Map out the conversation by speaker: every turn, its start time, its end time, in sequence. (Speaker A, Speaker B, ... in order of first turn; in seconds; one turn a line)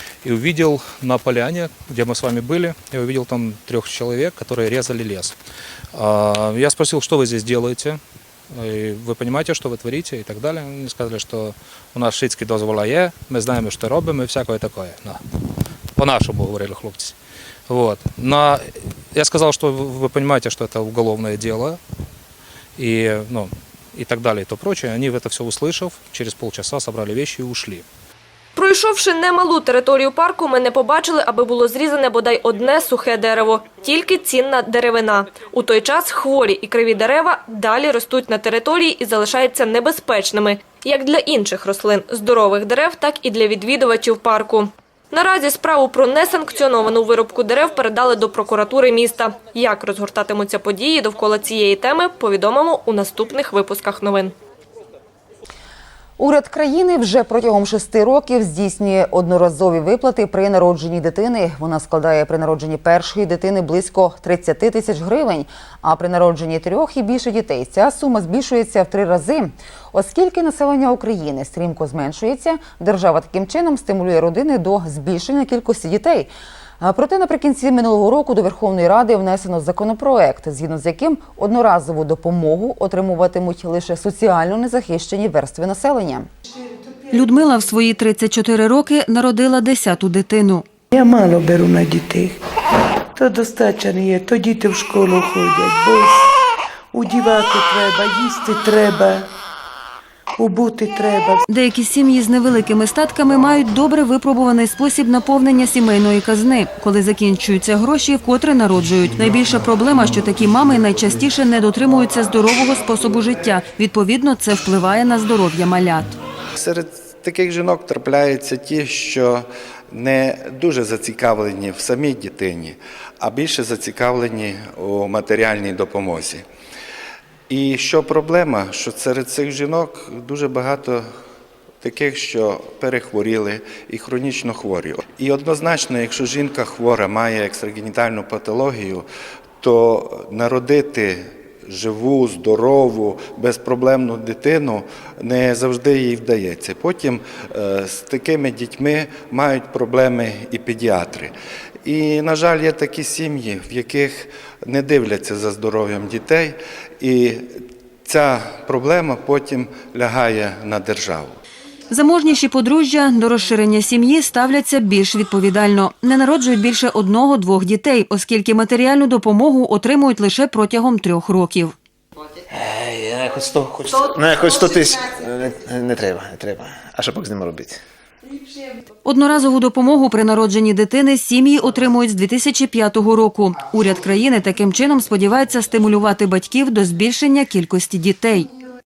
Speaker A: 0.2-5.4
Speaker A: 5.9-8.0
Speaker A: 8.5-15.2
Speaker A: 16.0-17.1
Speaker A: 17.7-21.8
Speaker A: 22.8-27.9
Speaker B: 28.6-54.3
Speaker C: 56.2-86.3
Speaker D: 87.1-90.7
Speaker E: 90.9-92.4
Speaker E: 93.2-96.3
Speaker E: 96.9-99.3
Speaker E: 100.4-101.4
Speaker D: 101.5-116.2
Speaker F: 116.5-126.5
Speaker F: 127.5-131.1
Speaker F: 131.8-139.1
Speaker F: 139.6-151.3
Speaker F: 151.8-161.4
Speaker D: 161.9-171.7
Speaker G: 172.5-177.8
Speaker D: 179.1-188.5